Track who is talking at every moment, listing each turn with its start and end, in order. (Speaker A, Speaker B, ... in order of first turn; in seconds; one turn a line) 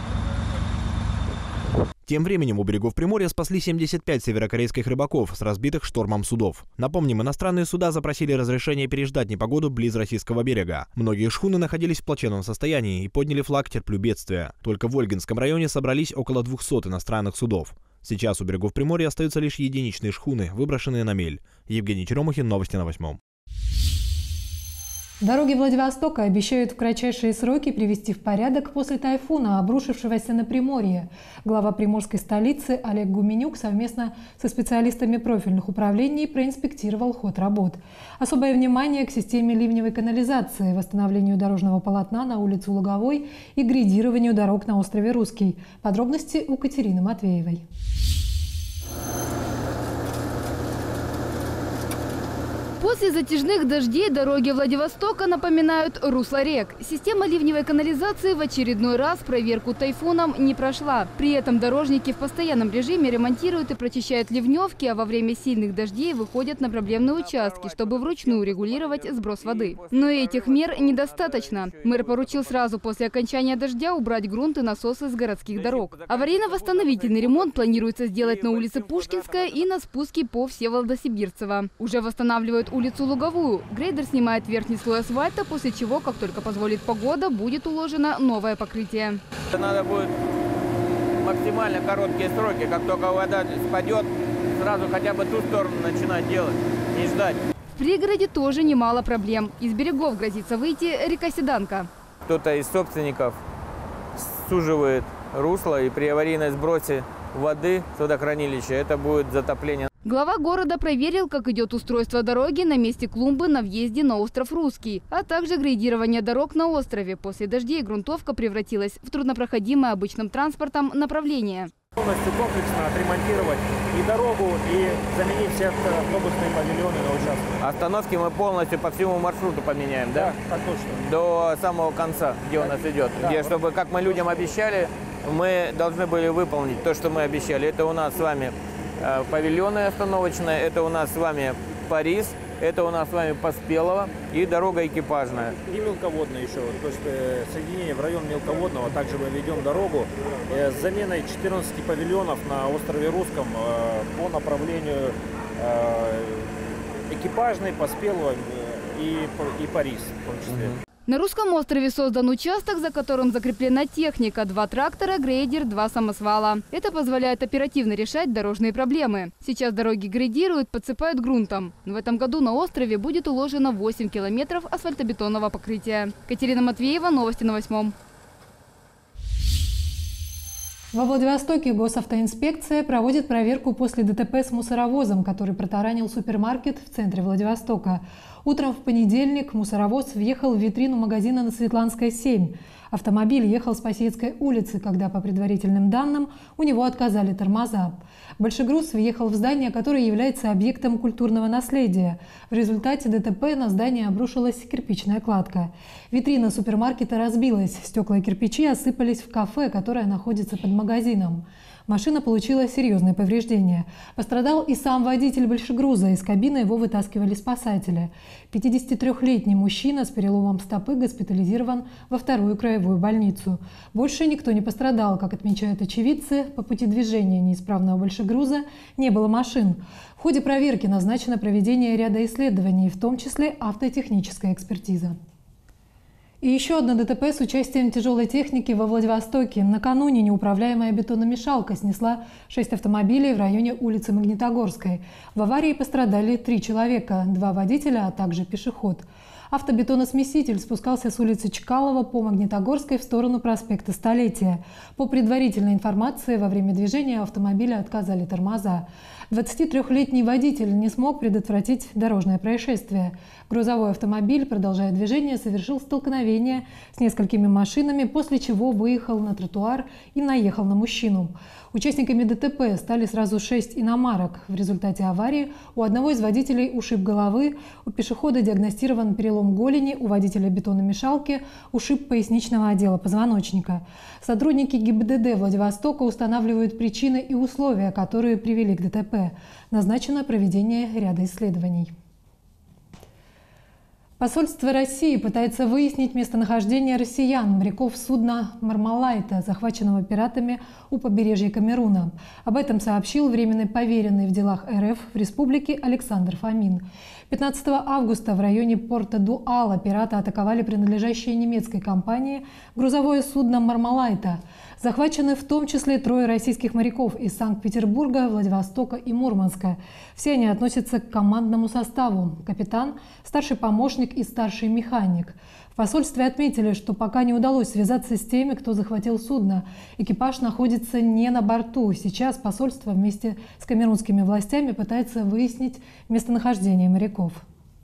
Speaker A: 2.0-23.2
Speaker B: 25.2-47.6
Speaker C: 52.8-89.2
Speaker D: 66.9-72.7
Speaker D: 75.5-79.7
Speaker D: 89.5-90.1
Speaker D: 91.2-97.4
Speaker C: 97.8-101.9
Speaker D: 102.2-103.4
Speaker D: 104.2-109.9
Speaker C: 110.0-121.7
Speaker E: 121.9-127.6
Speaker D: 127.6-130.4
Speaker E: 130.1-130.9
Speaker D: 130.9-145.6
Speaker E: 133.2-133.5
Speaker E: 145.6-160.7
Speaker C: 161.1-177.9
Speaker B: 180.9-235.2
Speaker B: 236.4-291.9
Speaker B: 294.2-337.4